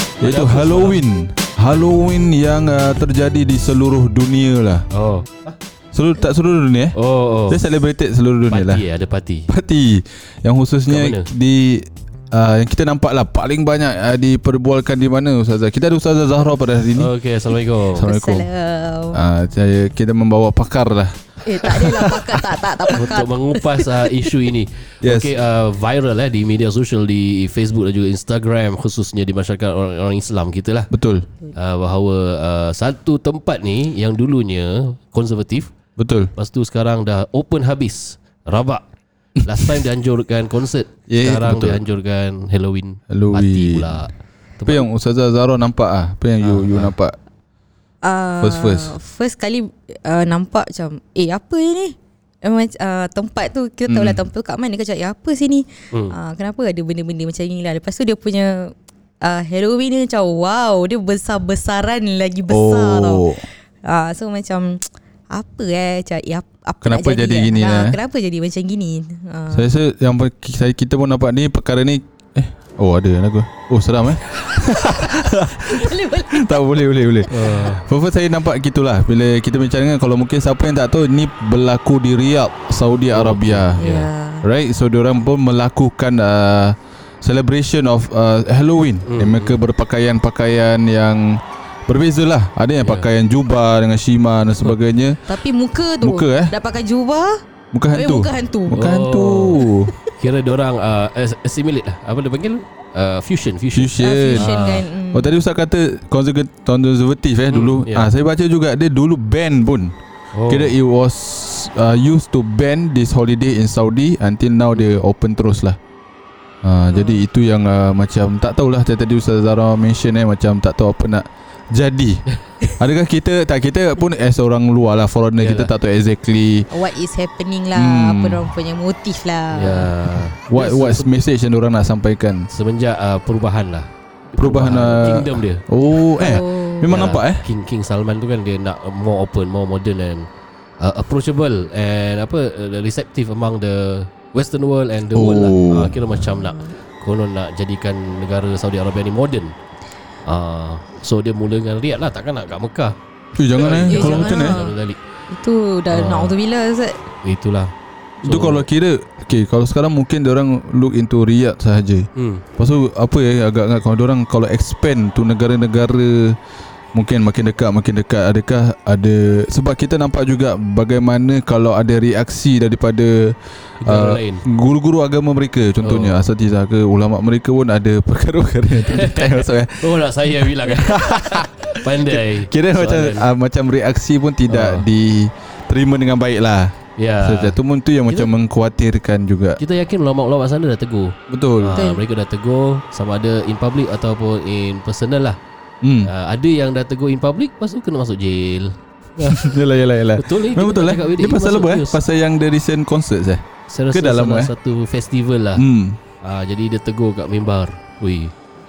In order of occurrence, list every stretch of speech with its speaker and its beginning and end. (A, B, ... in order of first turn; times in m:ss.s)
0:00.2-0:04.9 A
0:00.2-0:01.0 B
0:04.9-0:05.6 B
0:05.9-0:07.0 A
0:07.0-0:07.6 B
0:07.5-0:08.8 A
0:08.5-0:09.5 B
0:09.5-0:17.1 A
0:10.9-0:11.3 B
0:16.9-0:18.1 B
0:17.9-0:18.5 A
0:18.0-0:19.2 C
0:19.1-0:22.5 A
0:21.4-0:24.3 C
0:23.0-0:30.9 B
0:25.0-0:25.4 A
0:30.9-0:31.3 A
0:31.5-0:35.7 B
0:36.0-0:36.3 A
0:36.4-0:38.8 B
0:39.4-0:44.8 B
0:41.1-0:41.8 A
0:43.1-0:44.1 A
0:44.7-0:47.2 A
0:46.4-0:47.0 B
0:48.0-1:09.7 C
0:48.4-0:48.9 A
0:53.9-0:54.2 A
1:02.5-1:03.4 A
1:06.8-1:08.0 A
1:09.5-1:23.8 A
1:14.6-1:16.6 C
1:17.3-1:17.8 B
1:23.1-1:24.1 B
1:23.8-1:24.4 C
1:24.4-1:35.3 A
1:29.1-1:29.6 B
1:32.8-1:33.1 B
1:35.3-1:37.4 C
1:36.0-1:36.5 A
1:37.7-1:39.9 A
1:37.9-1:38.8 C
1:38.7-1:39.6 B
1:39.6-1:40.0 C
1:40.2-1:44.8 B
1:43.7-1:49.9 A
1:44.0-1:45.3 C
1:47.5-1:48.1 B
1:50.3-1:50.7 B
1:50.5-1:55.8 A
1:54.7-1:55.0 B
1:56.6-2:06.7 A
1:56.9-1:57.2 C
2:05.4-2:05.7 B
2:06.7-2:09.9 C
2:07.8-2:08.5 A
2:09.6-2:11.1 B
2:10.4-2:12.5 A
2:12.5-2:15.6 B
2:14.4-2:17.5 A
2:16.2-2:17.1 C
2:16.9-2:20.3 B
2:20.8-2:29.5 B
2:25.1-2:26.0 A
2:26.3-2:26.7 C
2:30.3-2:33.0 B
2:33.4-2:34.6 A
2:33.5-2:35.0 B
2:33.9-2:34.8 C
2:35.3-2:37.1 C
2:35.9-2:36.4 B
2:37.2-2:37.7 B
2:38.2-2:38.7 B
2:38.2-2:46.4 A
2:42.2-2:42.4 B
2:46.9-3:09.6 A
2:53.8-2:54.4 B
2:55.8-2:56.2 B
2:58.8-3:03.3 B
3:04.5-3:04.9 B
3:07.0-3:08.3 B
3:09.6-3:15.4 B
3:11.3-3:11.8 A
3:11.8-3:12.0 C
3:15.8-3:16.1 A
3:16.1-3:19.5 B
3:19.3-3:24.5 A
3:20.2-3:22.0 B
3:23.7-3:25.6 B
3:25.6-3:26.0 A
3:26.2-3:28.4 B